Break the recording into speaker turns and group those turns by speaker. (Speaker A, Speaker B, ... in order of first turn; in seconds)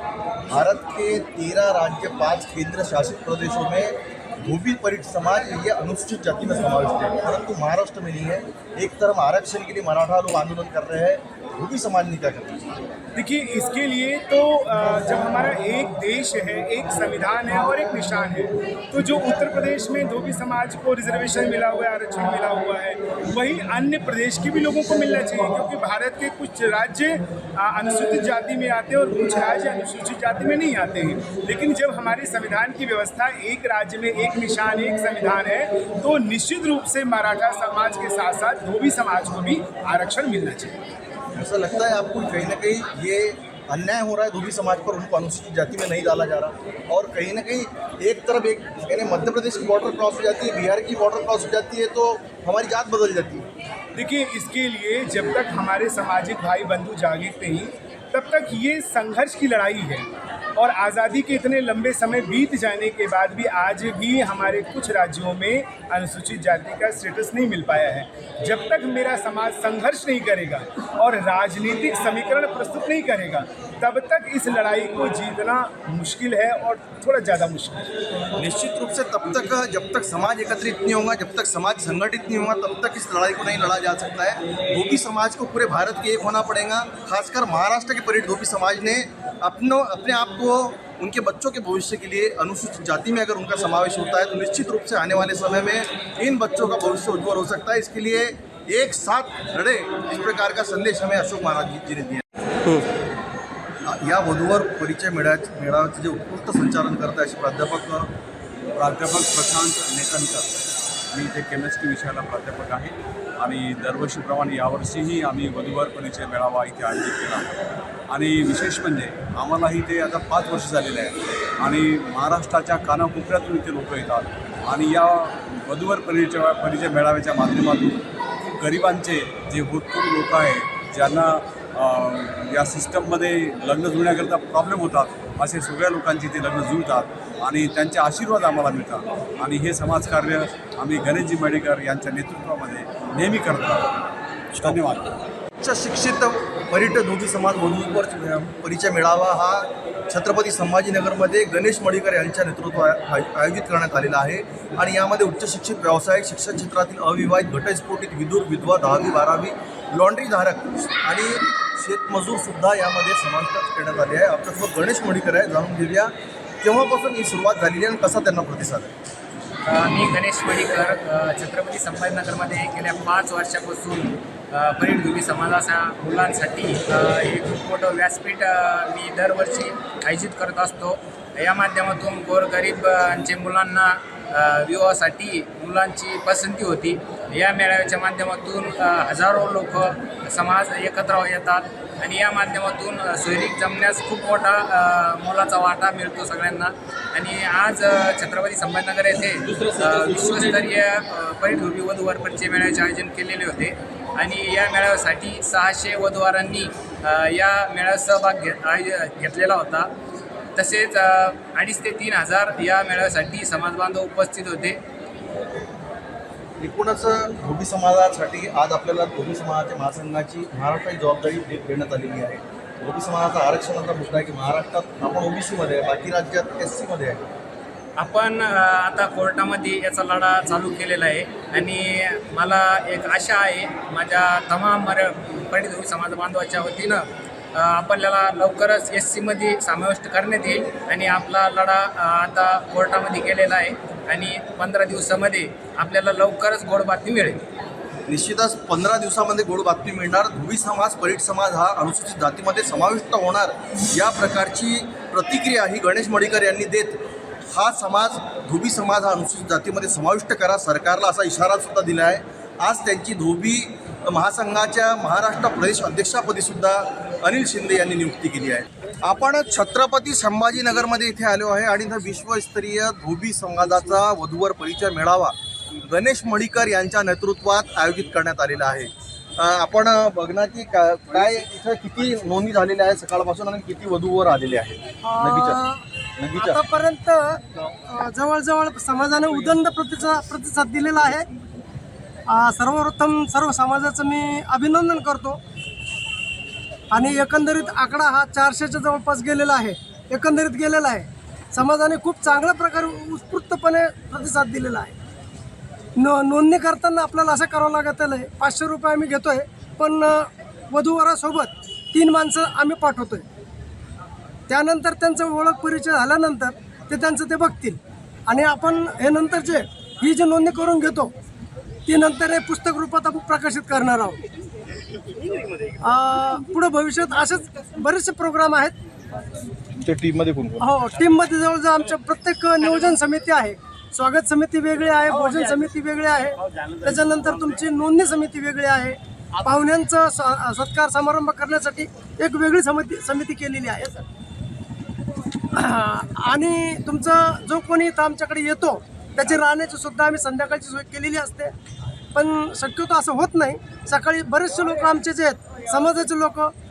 Speaker A: 0.5-12.8, 41.4-53.5, 78.4-102.2, 103.9-108.1, 145.6-168.9, 216.6-227.2, 248.1-285.6, 286.2-286.6, 329.8-330.7
Speaker B: 13.1-40.8, 53.9-77.9
Speaker C: 108.8-110.5, 111.1-117.5, 118.1-128.0, 128.6-143.9, 144.5-145.0
Speaker D: 169.7-209.9, 210.6-214.8, 228.0-247.4
Speaker E: 285.0-285.8, 286.3-291.3, 292.3-295.4, 296.9-304.9, 305.9-313.2, 314.5-321.1, 321.9-324.2, 325.8-328.7, 330.6-344.0, 345.5-351.5, 352.1-356.5